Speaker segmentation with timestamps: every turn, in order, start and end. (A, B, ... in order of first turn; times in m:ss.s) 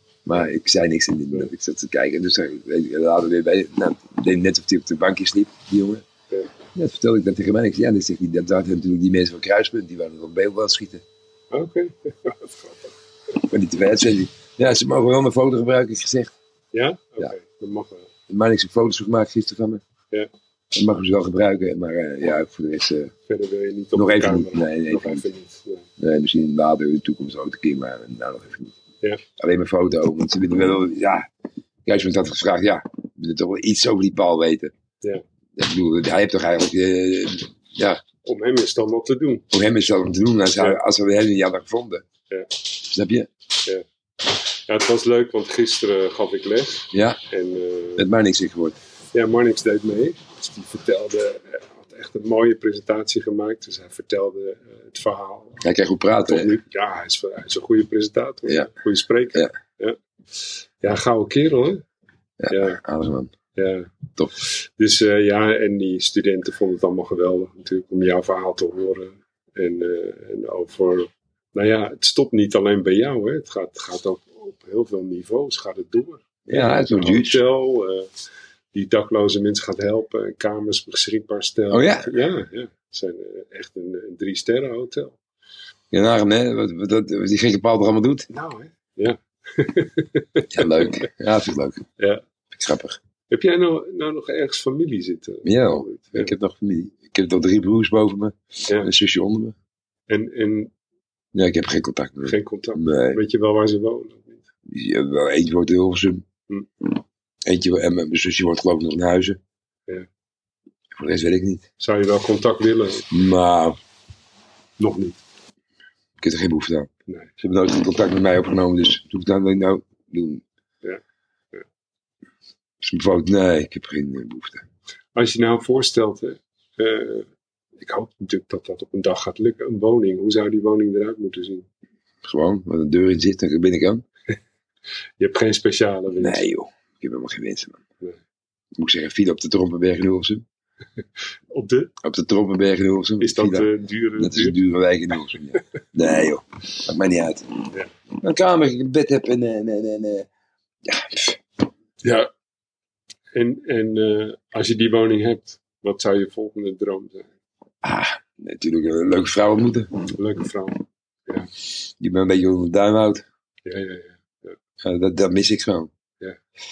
0:00.2-0:06.0 A
0:06.7-0:11.0 A
0:11.5-0:12.9 B
0:13.4-0:16.3 A
0:16.7-0:18.1 B
0:18.3-0:19.8 A
0:20.7-0:23.1 A
0:23.3-0:25.9 B
0:23.9-0:25.2 A
0:26.0-0:28.7 A
0:29.4-0:31.2 A
0:31.8-0:34.7 A
0:35.6-0:38.0 A
0:38.2-0:39.4 B
0:39.5-0:42.0 A
0:40.5-0:40.8 B
0:42.8-0:43.3 A
0:44.7-0:48.1 B
0:46.9-0:47.2 A
0:48.0-0:48.8 A
0:49.1-0:55.6 B
0:55.6-0:56.5 A
0:56.3-1:01.8 B
1:02.4-1:03.3 A
1:02.5-1:02.8 B
1:03.6-1:18.1 B
1:16.5-1:17.4 A
1:18.7-1:25.2 B
1:21.7-1:22.1 A
1:25.9-1:28.3 A
1:28.3-1:30.9 B
1:30.5-1:31.8 A
1:32.5-1:33.0 A
1:33.3-1:36.3 B
1:35.4-1:39.5 A
1:40.1-1:40.7 B
1:41.3-1:43.2 A
1:42.2-1:44.4 B
1:44.7-1:46.2 A
1:47.4-1:49.4 A
1:51.0-1:51.6 A
1:51.8-1:53.1 B
1:53.1-1:53.8 A
1:54.8-1:55.2 B
1:56.2-1:56.9 A
1:57.4-2:00.4 A
2:02.8-2:04.6 A
2:05.1-2:07.3 B
2:07.8-2:11.6 B
2:12.2-2:14.0 A
2:15.2-2:16.4 B
2:16.2-2:17.8 A
2:18.8-2:20.4 A
2:21.5-2:21.9 B
2:22.0-2:23.7 A
2:23.2-2:24.6 B
2:24.2-2:27.5 A
2:28.2-2:30.3 A
2:30.8-2:31.4 A
2:32.0-2:32.3 B
2:33.3-2:37.3 B
2:37.8-2:40.0 A
2:40.1-2:41.5 B
2:41.9-2:43.2 A
2:43.6-2:44.6 B
2:44.8-2:45.9 A